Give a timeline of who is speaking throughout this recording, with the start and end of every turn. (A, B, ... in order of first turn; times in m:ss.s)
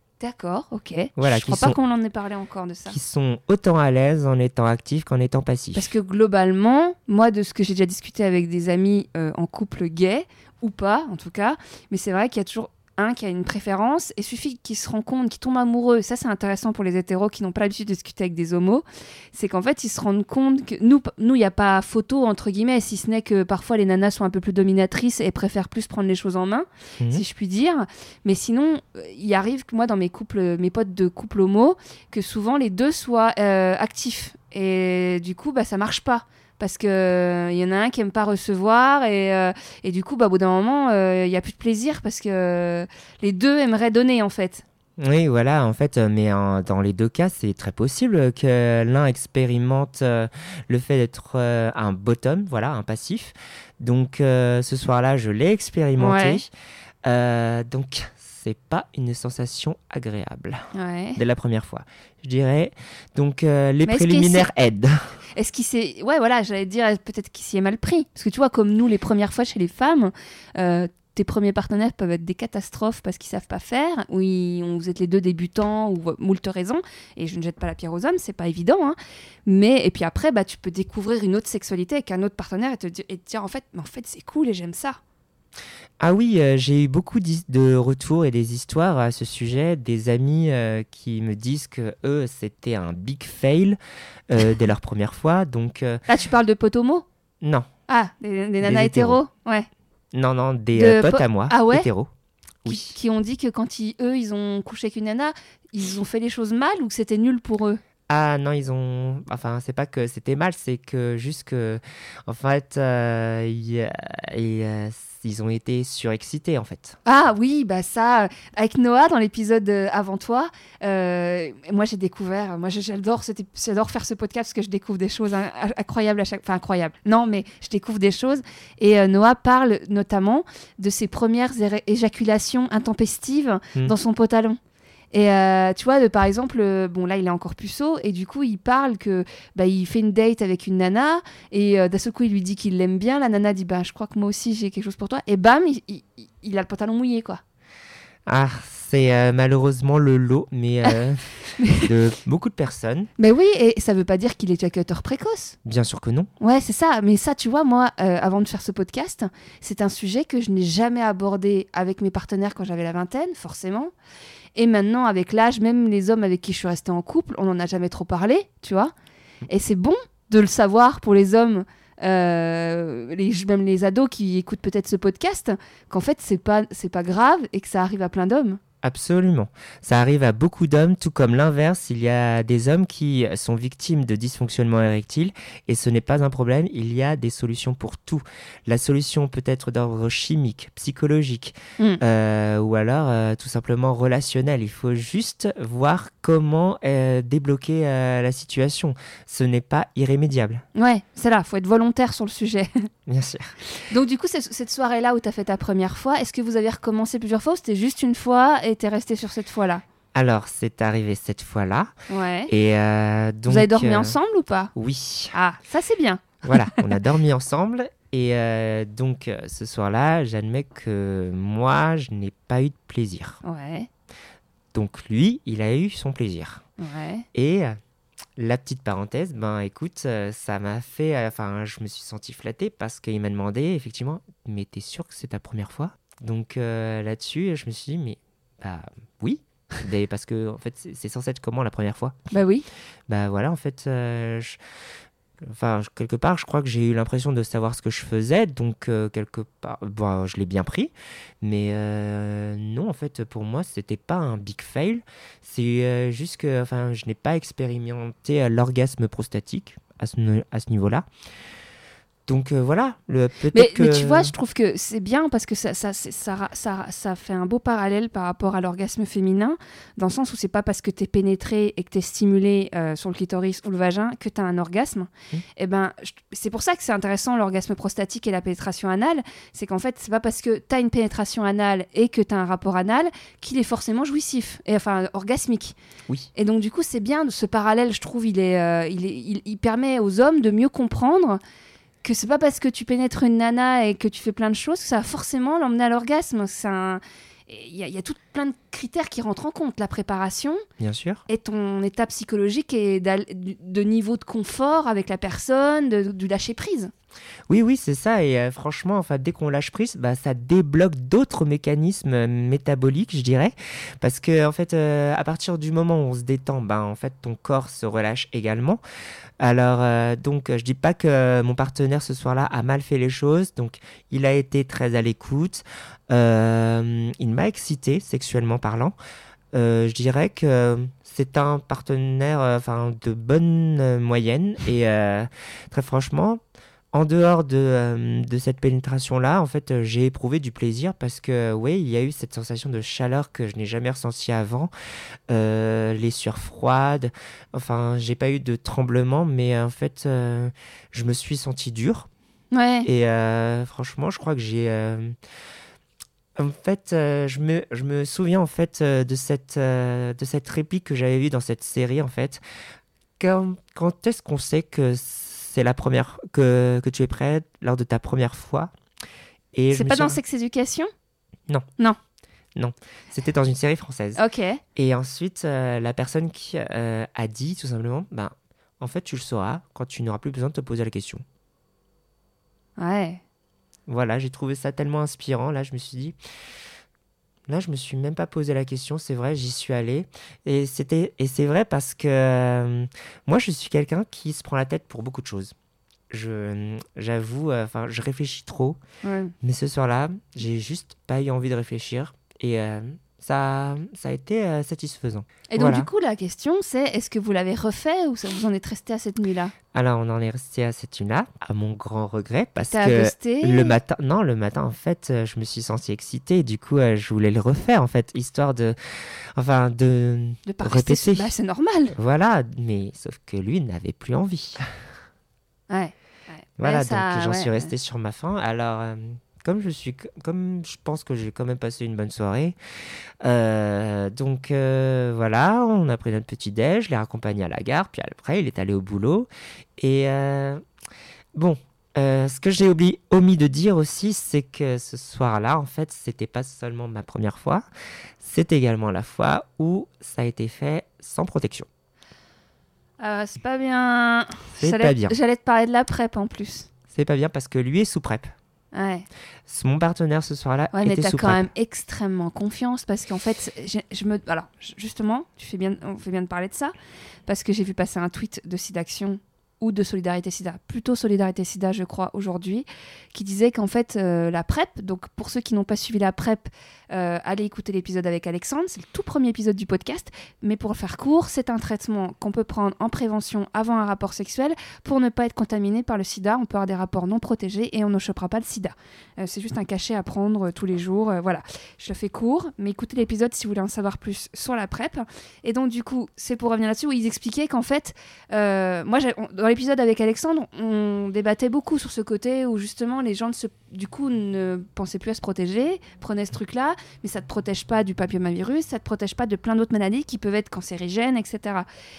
0:00.2-0:03.0 A
0:01.2-0:01.8 B
0:02.9-0:05.9 B
0:05.7-0:44.6 A
0:45.0-0:56.5 B
0:56.0-0:56.4 A
0:57.0-1:00.6 B
1:00.7-1:01.2 A
1:01.2-1:05.0 B
1:03.8-1:04.5 A
1:05.4-1:25.0 A
1:26.0-1:33.8 B
1:34.3-1:36.0 B
1:36.1-1:37.0 A
1:37.4-1:37.7 B
1:37.9-1:39.7 A
1:38.6-1:39.2 B
1:40.1-1:42.1 B
1:40.7-1:41.9 A
1:42.6-1:42.9 B
1:42.7-1:47.8 A
1:48.1-1:57.0 B
1:57.0-2:14.6 A
2:15.1-2:27.4 A
2:28.3-2:31.2 B
2:31.6-2:31.9 A
2:31.8-2:33.1 B
2:33.2-2:35.6 A
2:35.6-2:36.3 B
2:36.4-2:43.9 A
2:44.6-2:48.9 A
2:49.5-2:58.6 A
2:58.8-3:20.6 B
3:20.8-3:22.9 A
3:23.1-3:23.6 B
3:23.8-3:29.8 A
3:30.1-3:31.9 B
3:32.1-3:32.5 A
3:32.5-3:34.1 B
3:33.5-3:34.7 A
3:34.7-3:35.3 B
3:35.3-3:36.9 A
3:36.4-3:43.4 B
3:43.4-3:43.9 A
3:44.7-3:46.6 B
3:46.8-3:47.3 A
3:47.3-3:47.8 B
3:48.4-4:02.2 B
4:02.3-4:02.7 A
4:03.1-4:04.6 B
4:05.4-4:21.1 B
4:22.3-4:24.3 B
4:23.5-4:45.8 A
4:46.4-4:51.4 A
4:52.0-5:00.6 A
5:00.8-5:01.2 B
5:01.3-5:06.9 A
5:07.5-5:18.8 B
5:19.4-5:28.9 B
5:29.5-5:36.4 B
5:36.9-5:44.7 B
5:45.3-5:52.1 B
5:52.5-5:52.9 A
5:52.8-5:55.2 B
5:56.4-6:02.4 B
6:03.2-6:08.7 B
6:09.5-6:10.2 B
6:09.7-6:10.9 A
6:12.6-6:14.2 B
6:14.1-6:14.6 A
6:14.8-6:21.2 B
6:22.8-6:23.2 A
6:23.9-6:26.2 B
6:27.5-6:35.5 B
6:36.1-6:38.8 B
6:39.0-6:39.3 A
6:39.4-6:45.9 B
6:45.5-6:49.5 A
6:49.7-6:58.8 B
6:52.7-6:53.8 A
6:59.4-7:01.3 B
7:00.4-7:02.0 A
7:01.9-7:04.7 B
7:05.7-7:07.7 A
7:06.6-7:12.6 B
7:13.2-7:20.6 B
7:21.4-7:27.6 B
7:28.2-7:31.7 B
7:33.0-7:36.7 A
7:34.6-7:35.2 B
7:36.9-7:38.3 B
7:38.7-7:39.1 A
7:39.5-7:41.4 B
7:40.7-7:46.7 A
7:47.3-8:31.7 A